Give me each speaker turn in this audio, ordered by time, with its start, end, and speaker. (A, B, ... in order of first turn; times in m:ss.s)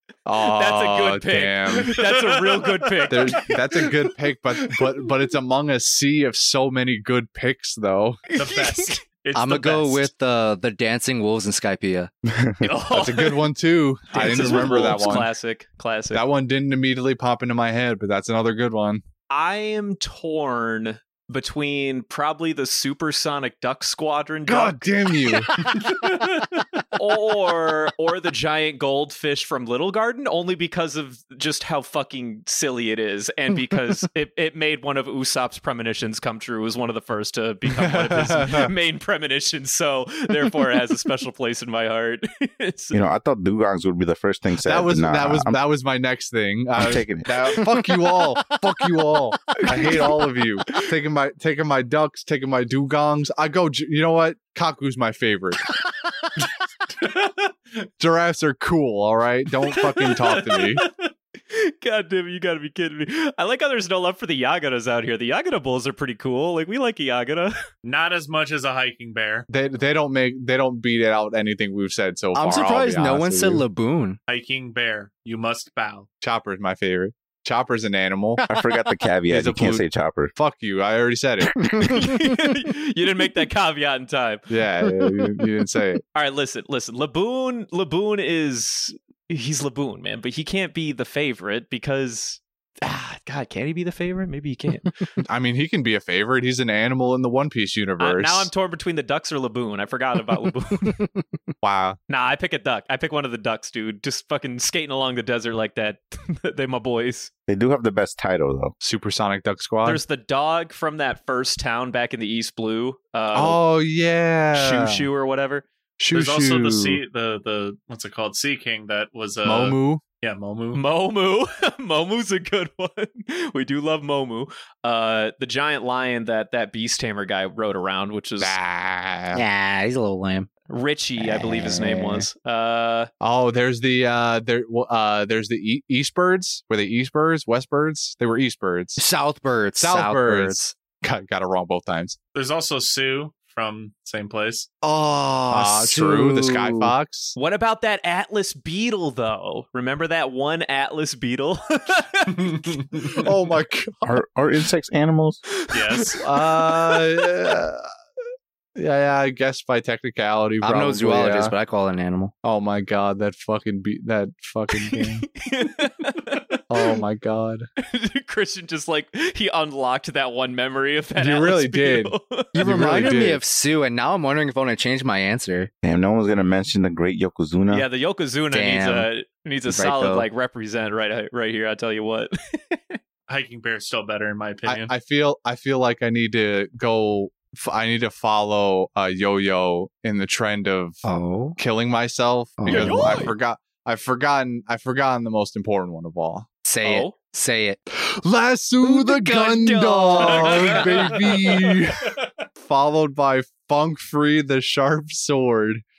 0:00.2-0:02.0 A
0:00.4-0:03.4 B
0:01.9-0:04.0 C
0:03.1-0:08.2 A
0:04.7-0:05.1 C
0:08.3-0:09.0 B
0:08.3-0:10.1 C
0:09.3-0:12.1 D
0:12.3-0:12.6 E
0:12.6-0:13.5 B
0:12.9-0:15.3 A
0:14.1-0:16.2 B
0:16.1-0:19.0 A
0:19.3-0:25.1 B
0:24.5-0:25.5 A
0:26.9-0:43.0 B
0:37.7-0:38.7 A
0:42.9-0:45.6 E
0:44.6-0:55.6 A
0:46.8-0:47.8 E
0:47.6-0:47.9 D
0:49.5-0:50.2 B
0:57.0-0:57.5 C
0:58.0-1:00.8 A
0:59.7-1:00.9 B
1:01.5-1:07.6 B
1:07.8-1:09.5 C
1:09.5-1:13.6 A
1:12.3-1:14.2 D
1:14.3-1:16.1 C
1:16.2-1:18.4 A
1:18.4-1:18.7 D
1:18.5-1:20.3 E
1:19.3-1:21.7 A
1:21.8-1:24.4 B
1:24.5-1:26.0 A
1:26.1-1:35.1 B
1:35.3-1:38.5 A
1:38.0-1:41.0 B
1:41.6-1:42.0 A
1:42.1-1:47.3 B
1:47.5-1:48.7 E
1:48.8-1:50.0 A
1:49.8-1:53.6 B
1:53.3-1:55.1 A
1:54.5-1:55.6 B
1:56.0-1:57.0 A
1:56.1-2:00.8 C
1:59.4-2:00.0 A
2:00.7-2:08.5 B
2:08.4-2:09.4 A
2:09.3-2:10.5 D
2:10.7-2:13.1 B
2:11.2-2:12.3 D
2:13.2-2:19.0 A
2:19.0-2:20.8 D
2:19.8-2:22.2 A
2:22.3-2:24.7 C
2:24.9-2:26.9 D
2:25.4-2:27.3 A
2:27.4-2:32.7 B
2:32.4-2:33.2 C
2:33.1-2:34.2 A
2:34.0-2:35.4 E
2:35.6-2:37.3 B
2:35.7-2:36.2 C
2:36.2-2:37.9 A
2:38.8-2:41.5 A
2:40.6-2:42.3 D
2:42.4-2:45.2 A
2:44.7-2:47.0 B
2:46.7-2:47.6 A
2:47.8-2:52.7 B
2:51.2-2:53.4 A
2:52.5-2:55.7 D
2:55.8-2:57.8 E
2:57.7-3:03.0 B
2:58.5-2:59.1 D
2:59.7-3:00.3 D
3:03.3-3:04.9 C
3:04.6-3:16.5 A
3:11.0-3:11.6 D
3:12.6-3:13.2 D
3:12.7-3:13.3 B
3:16.6-3:17.8 D
3:16.8-3:17.1 B
3:17.9-3:25.8 A
3:18.8-3:20.9 D
3:19.8-3:21.2 B